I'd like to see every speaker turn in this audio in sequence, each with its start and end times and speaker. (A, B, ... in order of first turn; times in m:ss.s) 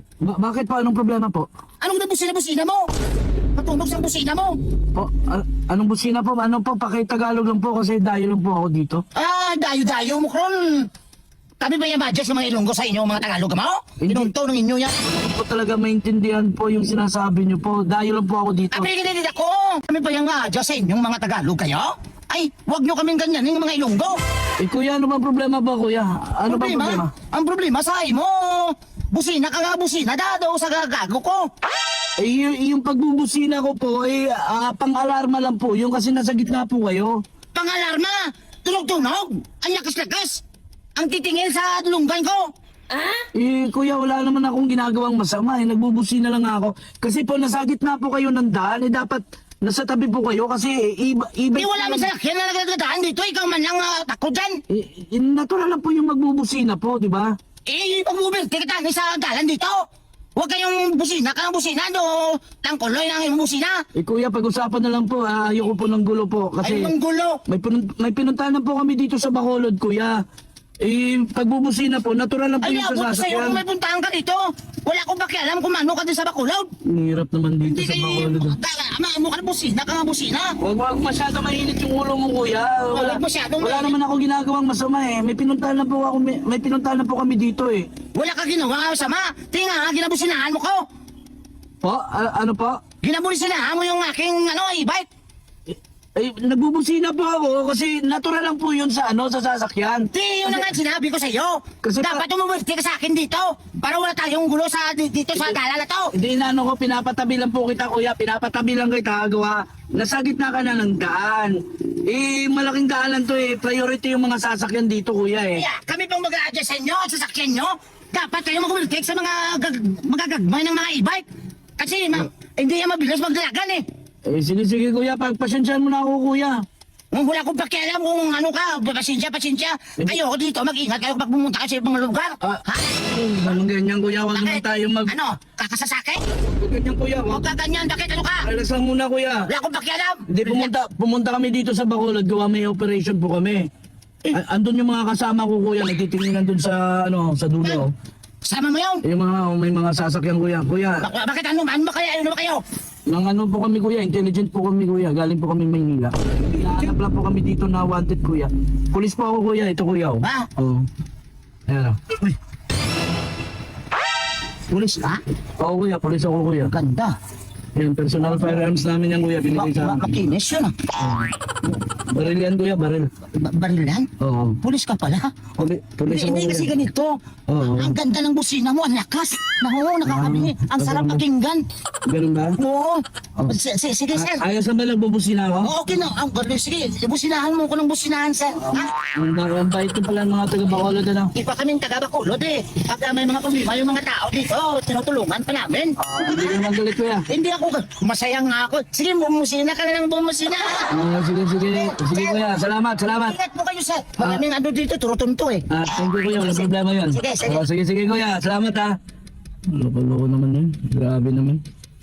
0:00.2-0:01.5 A
0:01.8-0:02.9 B
0:03.5-0:04.6 B
0:04.9-0:09.0 A
0:09.1-0:10.9 B
0:11.6-0:15.0 B
0:14.0-0:14.3 A
0:15.0-0:18.9 A
0:18.7-0:24.2 B
0:24.6-0:27.1 A
0:26.5-0:31.5 B
0:32.2-0:37.2 A
0:37.5-0:40.4 B
0:41.0-0:42.5 B
0:43.3-0:52.1 A
0:51.5-0:54.6 B
0:54.7-0:57.4 A
0:57.7-0:59.8 B
1:00.4-1:03.8 B
1:04.0-1:06.9 A
1:06.6-1:07.4 B
1:07.5-1:10.2 A
1:10.8-1:13.6 A
1:12.6-1:16.7 B
1:16.8-1:18.6 A
1:17.6-1:20.6 B
1:20.6-1:27.9 A
1:22.9-1:23.9 B
1:28.1-1:30.8 B
1:31.8-1:32.8 A
1:33.0-1:35.0 B
1:35.7-1:40.7 A
1:40.1-1:46.1 B
1:41.8-1:42.2 A
1:46.1-1:55.7 A
1:55.6-2:01.2 B
2:01.8-2:03.8 B
2:04.2-2:06.6 A
2:07.1-2:13.0 B
2:12.4-2:15.1 A
2:14.3-2:16.2 B
2:16.4-2:17.4 A
2:17.3-2:18.5 B
2:18.4-2:19.5 A
2:19.5-2:20.7 B
2:20.3-2:23.7 A
2:24.3-2:27.9 A
2:28.4-2:29.0 B
2:29.0-2:31.1 A
2:31.0-2:32.6 B
2:33.1-2:40.9 A
2:40.2-2:40.5 B
2:41.7-2:42.1 A
2:44.7-2:45.2 B
2:45.6-2:46.7 A
2:46.6-2:47.1 B
2:47.8-2:50.1 A
2:49.5-2:50.7 B
2:51.0-2:51.3 A
2:52.1-2:53.1 A
2:53.3-2:54.1 B
2:54.2-2:54.6 A
2:54.6-2:55.4 B
2:55.6-2:56.7 A
2:56.1-3:01.6 B
2:57.5-2:58.0 A
3:00.1-3:01.2 A
3:02.0-3:02.6 A
3:02.6-3:04.4 B
3:04.1-3:05.7 A
3:05.6-3:08.9 B
3:08.6-3:11.3 A
3:11.3-3:16.6 B
3:16.0-3:17.3 A
3:17.3-3:20.9 B
3:20.9-3:23.4 A
3:21.6-3:22.5 B
3:23.0-3:25.7 B
3:25.7-3:29.0 A
3:26.3-3:27.6 B
3:29.7-3:31.6 A